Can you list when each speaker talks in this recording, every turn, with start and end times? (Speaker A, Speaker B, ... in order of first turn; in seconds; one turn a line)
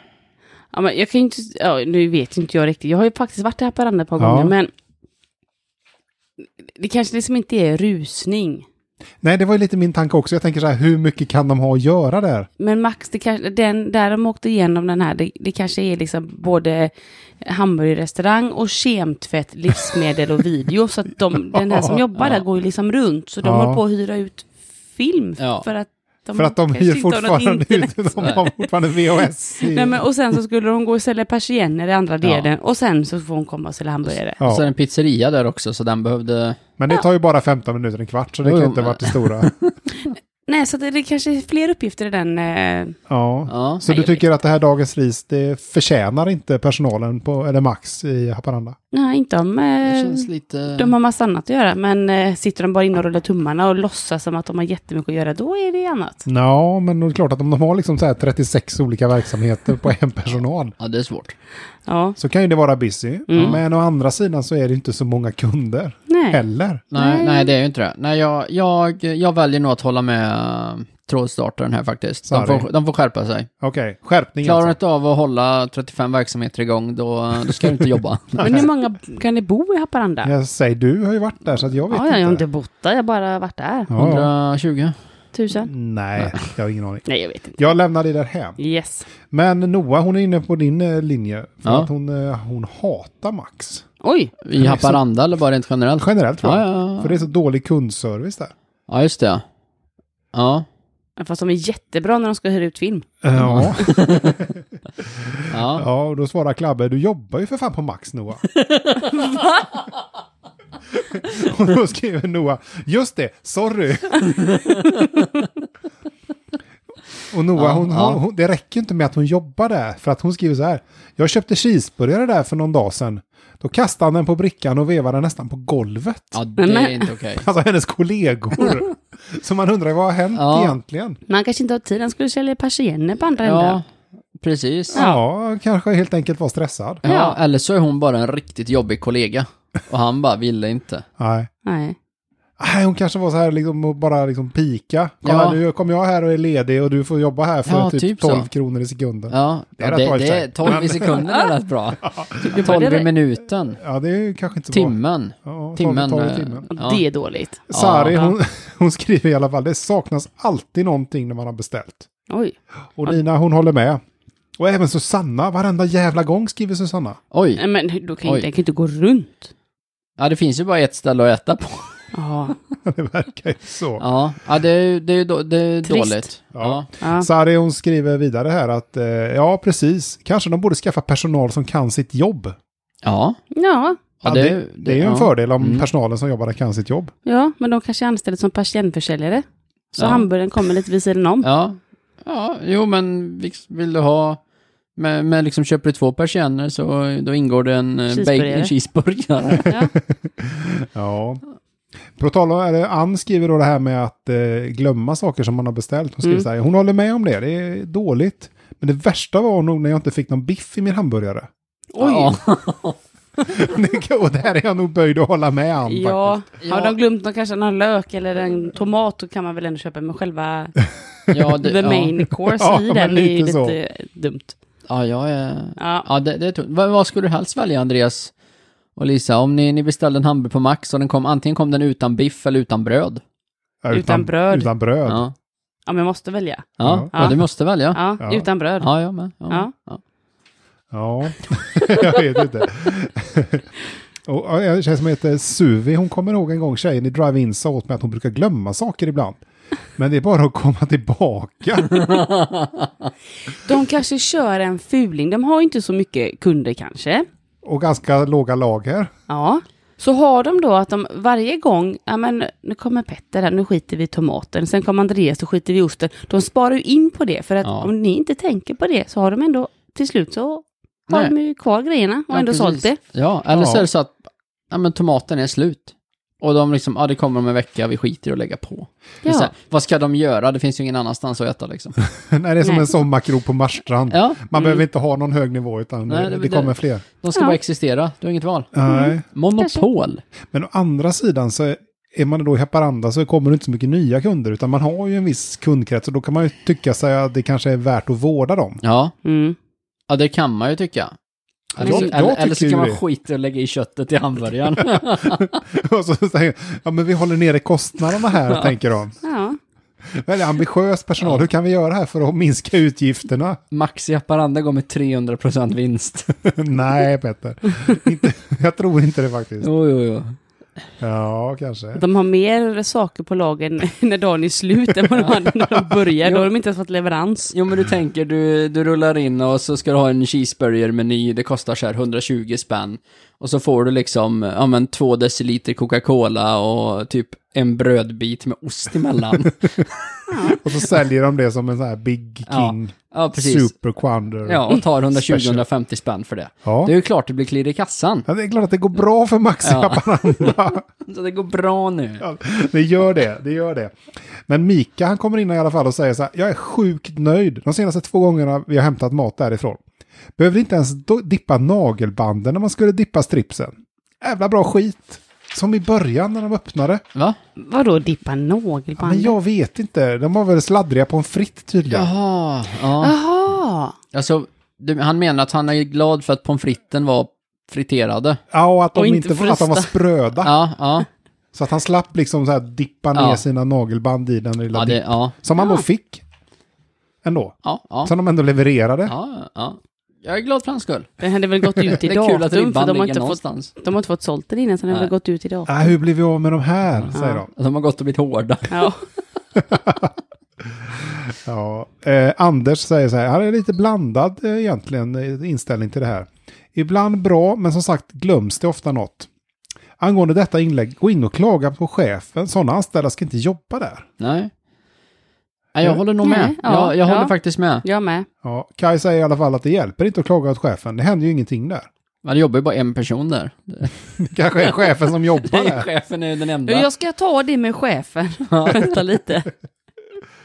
Speaker A: 0.7-4.7
Speaker B: 4.2-4.5
Speaker A: 6.7-8.7
Speaker B: 9.2-12.5
Speaker A: 12.6-28.6
Speaker B: 21.6-22.0
Speaker B: 23.4-23.8
Speaker C: 25.4-25.7
Speaker B: 26.4-30.0
Speaker A: 29.6-34.4
Speaker C: 32.2-32.5
Speaker B: 34.4-34.7
Speaker C: 34.4-36.6
Speaker B: 36.8-39.5
Speaker C: 38.4-39.7
Speaker A: 40.5-43.0
Speaker B: 43.1-48.8
Speaker C: 43.5-44.2
Speaker A: 48.9-56.2
Speaker C: 49.8-51.0
Speaker B: 56.3-60.8
Speaker C: 60.8-61.4
Speaker A: 61.9-62.2
Speaker B: 62.2-66.8
Speaker A: 63.3-63.5
Speaker A: 66.1-66.4
Speaker C: 66.9-73.5
Speaker A: 66.9-67.5
Speaker B: 72.3-72.7
Speaker B: 73.6-74.8
Speaker C: 74.4-78.5
Speaker A: 78.4-80.3
Speaker B: 78.4-78.7
Speaker B: 80.2-82.4
Speaker A: 81.9-83.9
Speaker B: 83.9-84.3
Speaker C: 84.0-85.0
Speaker A: 85.3-85.7
Speaker B: 85.6-87.0
Speaker A: 87.1-87.7
Speaker B: 87.6-88.6
Speaker A: 88.6-89.1
Speaker B: 89.3-93.9
Speaker A: 94.0-94.3
Speaker C: 94.5-97.2
Speaker B: 94.6-95.0
Speaker B: 96.0-98.5
Speaker C: 98.9-99.4
Speaker C: 100.3-100.7
Speaker A: 101.2-103.1
Speaker B: 103.2-108.5
Speaker C: 103.4-104.5
Speaker C: 105.5-105.9
Speaker C: 108.6-109.2
Speaker B: 110.9-114.4
Speaker C: 114.4-114.9
Speaker B: 117.3-126.4
Speaker C: 117.6-118.2
Speaker C: 126.3-127.5
Speaker A: 126.6-127.1
Speaker B: 127.4-131.2
Speaker C: 130.3-130.8
Speaker A: 131.3-133.8
Speaker C: 133.4-133.8
Speaker C: 134.4-135.0
Speaker B: 134.9-137.0
Speaker A: 137.1-137.4
Speaker C: 137.1-141.1
Speaker B: 141.2-141.5
Speaker A: 141.6-142.0
Speaker B: 142.6-151.2
Speaker C: 145.2-145.6
Speaker C: 147.7-148.5
Speaker C: 149.3-153.8
Speaker A: 151.0-151.5
Speaker B: 152.0-152.7
Speaker A: 152.4-153.1
Speaker B: 153.8-156.7
Speaker C: 154.7-157.0
Speaker A: 156.7-158.3
Speaker B: 157.7-162.1
Speaker C: 157.7-158.2
Speaker A: 162.3-163.2
Speaker B: 163.0-164.0
Speaker B: 164.6-167.2
Speaker C: 167.3-167.6
Speaker A: 167.6-169.5
Speaker C: 170.2-172.0
Speaker A: 172.1-172.6
Speaker B: 172.8-174.0
Speaker C: 174.0-176.9
Speaker A: 175.8-176.3
Speaker B: 176.6-182.6
Speaker A: 177.0-177.3
Speaker C: 183.0-183.4
Speaker A: 183.5-184.0
Speaker C: 184.2-185.9
Speaker B: 184.2-187.1
Speaker A: 187.3-191.5
Speaker C: 190.0-190.3
Speaker C: 191.4-194.4
Speaker C: 195.0-199.7
Speaker A: 198.1-198.7
Speaker B: 199.7-201.4
Speaker A: 199.7-199.9
Speaker B: 202.2-211.5
Speaker A: 211.9-212.3
Speaker C: 212.0-213.0
Speaker B: 213.4-216.4
Speaker A: 215.9-220.8
Speaker C: 216.6-217.0
Speaker C: 221.3-222.1
Speaker A: 221.5-224.5
Speaker B: 222.6-223.8
Speaker C: 224.9-228.3
Speaker A: 225.8-226.1
Speaker C: 229.0-233.2
Speaker B: 233.8-235.2
Speaker A: 233.9-234.7
Speaker C: 235.1-235.3
Speaker A: 235.9-237.4
Speaker C: 236.8-238.0
Speaker B: 236.8-237.4
Speaker A: 237.9-238.9
Speaker C: 238.8-240.0
Speaker B: 240.9-243.7
Speaker B: 244.2-249.4
Speaker B: 250.0-252.2
Speaker C: 251.9-252.9
Speaker A: 253.6-257.3
Speaker B: 257.6-259.1
Speaker A: 259.3-273.0
Speaker C: 267.6-267.9
Speaker C: 272.3-274.2
Speaker B: 273.5-273.9
Speaker C: 274.7-282.0
Speaker A: 279.2-279.5
Speaker B: 282.1-287.0
Speaker A: 282.6-282.9
Speaker C: 284.1-284.8
Speaker C: 286.1-290.2
Speaker B: 288.7-289.2
Speaker A: 288.9-289.9
Speaker B: 290.5-298.8
Speaker C: 298.8-299.1
Speaker A: 299.2-299.6
Speaker C: 300.1-301.1
Speaker B: 301.8-303.0
Speaker C: 301.8-305.5
Speaker A: 301.8-302.1
Speaker B: 304.9-309.2
Speaker A: 309.2-309.6
Speaker B: 310.1-313.6
Speaker C: 311.2-311.5
Speaker C: 313.7-316.3
Speaker B: 316.4-319.7
Speaker C: 319.6-320.4
Speaker B: 321.0-322.0
Speaker A: 321.9-327.5
Speaker C: 325.2-325.4
Speaker C: 326.2-326.5
Speaker C: 327.5-340.1
Speaker A: 340.3-340.6
Speaker B: 340.6-345.6
Speaker C: 342.5-343.7
Speaker C: 344.5-348.3
Speaker B: 346.6-346.9
Speaker B: 348.3-350.9
Speaker C: 349.6-352.2
Speaker B: 352.2-359.8
Speaker B: 360.4-367.0
Speaker A: 367.6-369.4
Speaker B: 369.0-372.1
Speaker C: 371.9-373.1
Speaker A: 373.0-374.0
Speaker C: 374.1-378.4
Speaker B: 378.5-380.6
Speaker A: 378.9-379.9
Speaker C: 380.4-381.1
Speaker B: 381.5-386.2
Speaker C: 383.1-383.4
Speaker C: 384.7-385.3
Speaker A: 385.6-385.9
Speaker B: 387.2-389.1
Speaker C: 387.6-388.1
Speaker C: 389.1-391.2
Speaker A: 391.2-395.9
Speaker C: 391.8-393.7
Speaker B: 395.7-397.5
Speaker C: 397.0-398.9
Speaker A: 397.1-397.4
Speaker A: 398.7-399.0
Speaker B: 399.6-400.1
Speaker B: 400.6-409.3
Speaker B: 410.0-414.1
Speaker C: 414.2-414.5
Speaker C: 415.8-417.9
Speaker A: 416.2-417.3
Speaker A: 417.8-418.3
Speaker B: 418.4-421.9
Speaker C: 422.2-424.0
Speaker B: 424.2-425.9
Speaker C: 424.6-426.9
Speaker A: 426.7-429.5
Speaker C: 428.5-428.9